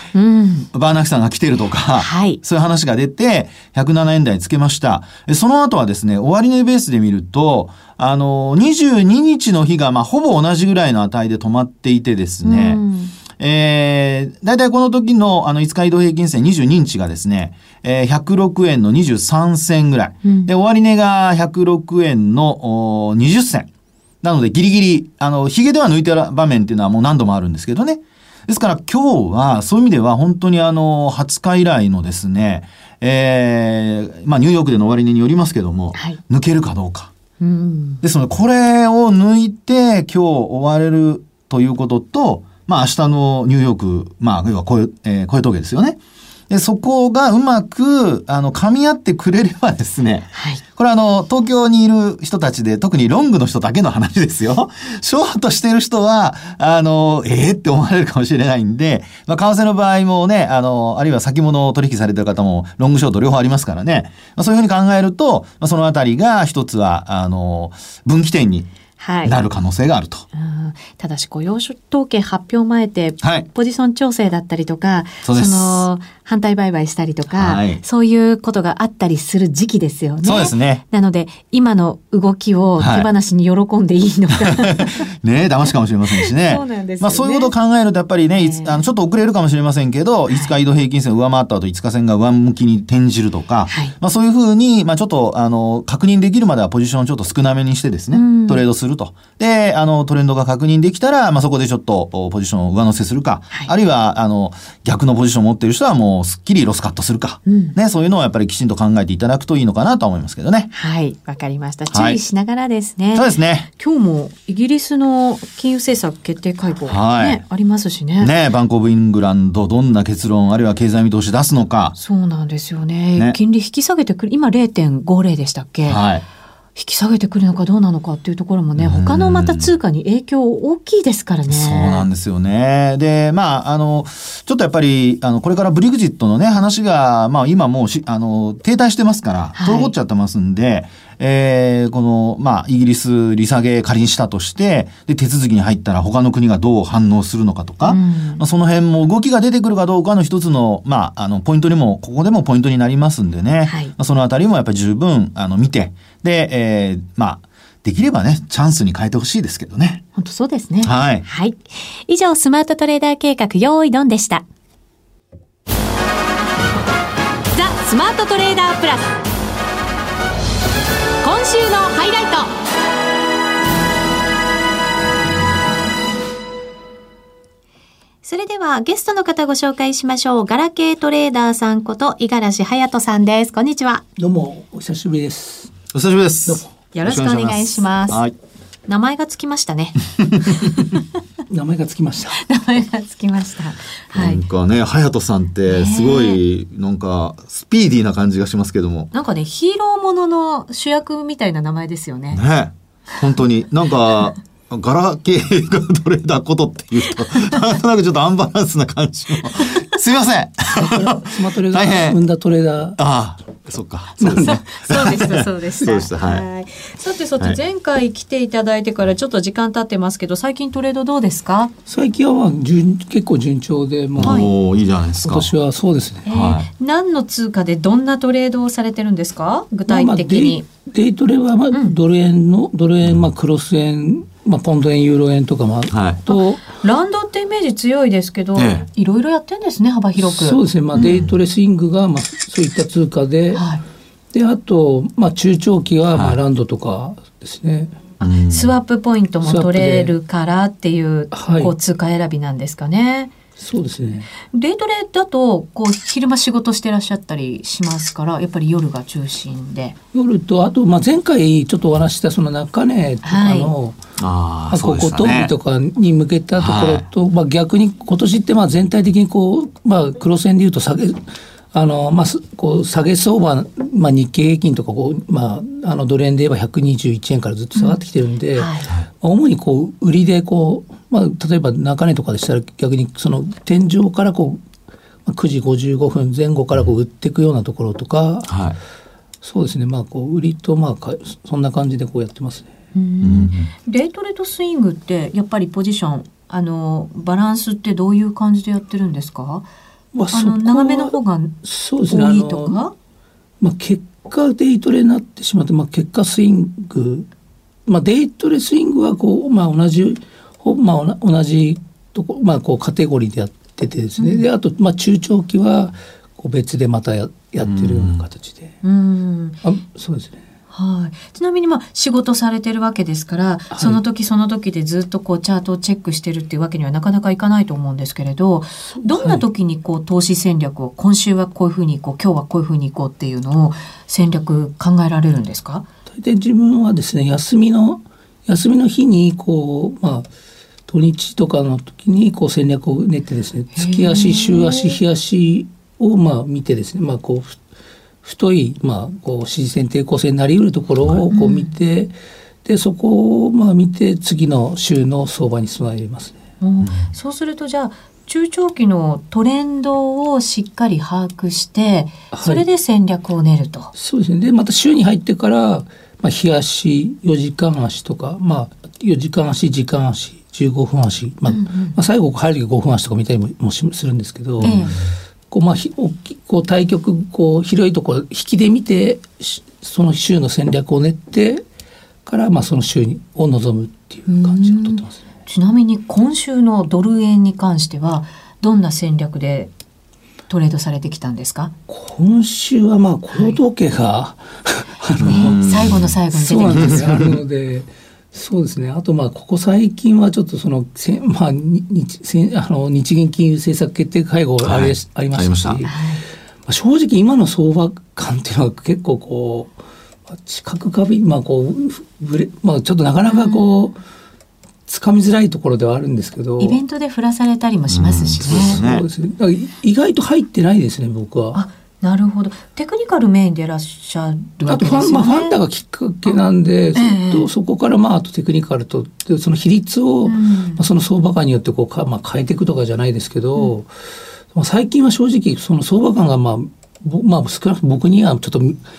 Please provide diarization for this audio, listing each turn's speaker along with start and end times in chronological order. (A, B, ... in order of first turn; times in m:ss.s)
0:00.1-0:00.7 A
0:00.7-0:23.7 B
0:02.0-0:02.4 A
0:12.4-0:13.2 A
0:20.2-0:20.5 A
0:24.2-0:37.1 B
0:37.4-0:38.0 A
0:38.0-0:46.0 B
0:46.5-1:08.7 B
0:50.4-0:50.6 A
1:09.0-1:09.4 A
1:09.2-1:10.2 B
1:10.3-1:25.1 A
1:13.2-1:13.5 B
1:15.2-1:15.8 B
1:17.3-1:17.8 B
1:20.2-1:20.8 B
1:22.8-1:23.1 B
1:24.4-1:50.7 B
1:26.2-1:27.5 A
1:28.4-1:28.8 A
1:33.7-1:33.9 A
1:38.1-1:38.6 A
1:47.5-1:47.8 A
1:50.7-1:58.3 A
1:51.9-1:52.2 B
1:53.2-1:53.7 B
1:56.9-1:57.4 B
1:58.2-2:02.0 B
2:02.0-2:06.0 A
2:05.8-2:06.2 B
2:06.8-2:12.1 A
2:08.8-2:09.7 B
2:11.5-2:40.0 B
2:19.6-2:19.9 A
2:27.9-2:28.4 A
2:33.7-2:33.9 A
2:40.2-2:44.4 A
2:40.8-2:41.2 B
2:47.5-2:49.2 A
2:51.2-2:52.5 A
2:58.2-3:04.0 A
3:04.2-3:05.8 C
3:05.9-3:08.3 B
3:06.9-3:08.2 A
3:08.9-3:11.0 A
3:11.5-3:12.4 C
3:12.4-3:14.4 A
3:14.1-3:19.1 B
3:15.7-3:16.4 A
3:19.1-3:22.4 A
3:22.3-3:32.2 B
3:30.7-3:33.0 C
3:33.0-3:36.5 B
3:34.2-3:34.6 C
3:34.3-3:41.7 A
3:41.9-3:44.5 C
3:44.2-3:45.5 B
3:44.2-3:44.5 A
3:45.2-3:46.3 C
3:46.3-3:50.7 A
3:46.3-3:46.7 B
3:49.9-3:56.6 C
3:55.9-3:56.2 B
3:56.3-4:01.2 A
3:58.6-3:58.9 B
4:00.2-4:03.6 C
4:01.0-4:01.4 B
4:03.5-4:03.8 A
4:04.3-4:08.0 C
4:06.1-4:06.4 B
4:08.2-4:08.7 B
4:08.2-4:13.3 A
4:09.4-4:10.2 C
4:11.3-4:11.7 C
4:13.6-4:14.3 C
4:14.5-4:20.0 A
4:20.1-4:24.0 C
4:23.2-4:23.7 A
4:24.2-4:25.5 B
4:24.7-4:44.6 C
4:26.6-4:27.1 B
4:37.8-4:38.0 A
4:38.6-4:38.9 A
4:45.3-4:48.6 C
4:48.5-4:48.8 B
4:49.4-4:52.7 C
4:53.0-4:59.7 A
4:53.2-4:53.7 B
5:00.1-5:02.8 C
5:00.3-5:01.6 A
5:02.1-5:02.9 A
5:03.6-5:07.3 C
5:07.9-5:18.8 C
5:14.2-5:14.5 A
5:17.6-5:18.2 B
5:18.8-5:19.6 A
5:19.6-5:20.4 C
5:20.7-5:35.9 A
5:23.7-5:24.0 C
5:28.9-5:29.4 C
5:36.1-5:40.3 C
5:40.9-5:47.6 C
5:43.8-5:45.0 A
5:48.2-5:52.1 C
5:51.3-5:51.7 A
5:52.6-5:56.4 C
5:56.6-6:03.9 A
5:56.8-5:57.1 B
6:02.3-6:02.6 C
6:03.9-6:14.9 C
6:11.5-6:12.0 A
6:14.6-6:15.0 A
6:14.6-6:15.1 B
6:15.5-6:21.6 C
6:22.3-6:25.2 C
6:24.3-6:29.7 A
6:30.5-6:31.7 A
6:31.9-6:46.0 C
6:35.2-6:36.2 B
6:35.3-6:37.2 A
6:36.7-6:37.3 B
6:44.6-6:45.8 B
6:45.8-6:46.2 A
6:46.7-6:49.7 C
6:50.3-6:54.0 C
6:53.3-6:53.7 A
6:54.9-6:56.8 C
6:56.6-6:58.8 A
6:57.9-6:59.0 B
6:58.4-7:01.6 C
7:01.5-7:05.6 A
7:04.7-7:13.9 C
7:07.0-7:07.5 A
7:10.2-7:10.8 A
7:14.5-7:18.8 C